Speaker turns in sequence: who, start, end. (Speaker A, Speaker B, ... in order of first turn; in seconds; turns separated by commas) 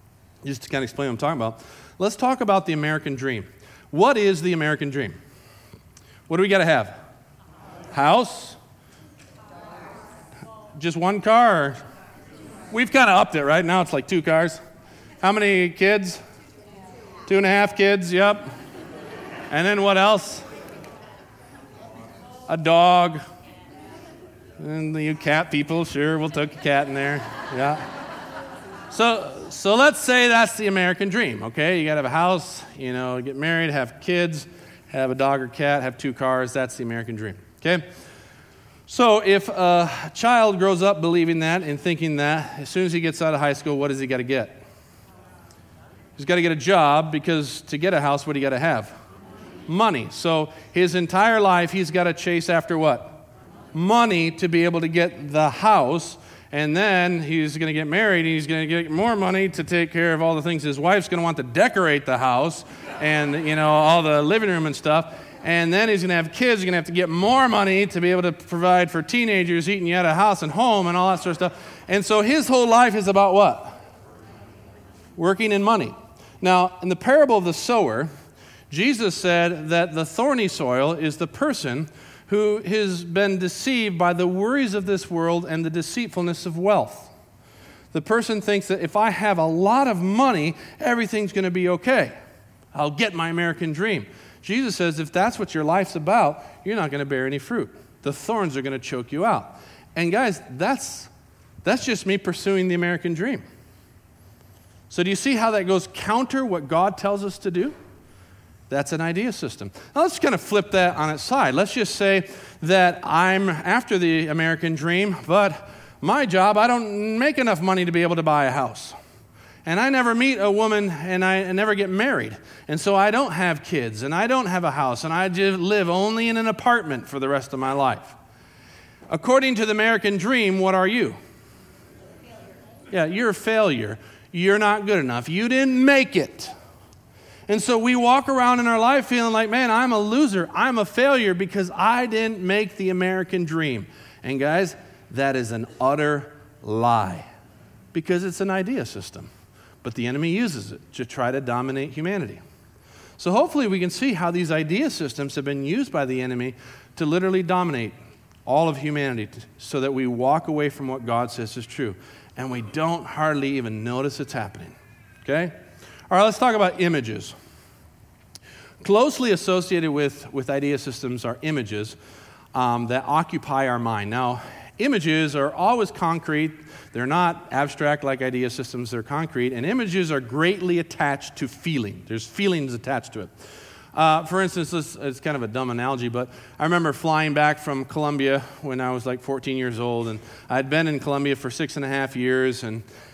Speaker A: 0.4-5.2, Speaker A: 6.3-7.0, Speaker A: 7.9-8.6, Speaker A: 10.8-11.8, Speaker A: 12.7-14.6, Speaker A: 15.2-16.2, Speaker A: 17.3-18.5, Speaker A: 19.5-20.4, Speaker A: 22.5-23.2, Speaker A: 24.6-27.8, Speaker A: 28.9-37.8, Speaker A: 38.9-44.6, Speaker A: 46.2-48.9, Speaker A: 49.7-73.8, Speaker A: 75.2-78.1, Speaker A: 78.7-87.1, Speaker A: 87.9-92.2, Speaker A: 92.7-101.1, Speaker A: 101.6-103.4, Speaker A: 104.9-107.7, Speaker A: 108.7-119.0, Speaker A: 119.6-128.2, Speaker A: 129.1-131.2, Speaker A: 132.9-136.5, Speaker A: 137.5-147.3, Speaker A: 147.9-149.3, Speaker A: 149.8-152.4, Speaker A: 153.2-157.9, Speaker A: 158.4-165.5, Speaker A: 166.1-167.3, Speaker A: 168.8-171.9, Speaker A: 172.5-183.3, Speaker A: 183.9-192.8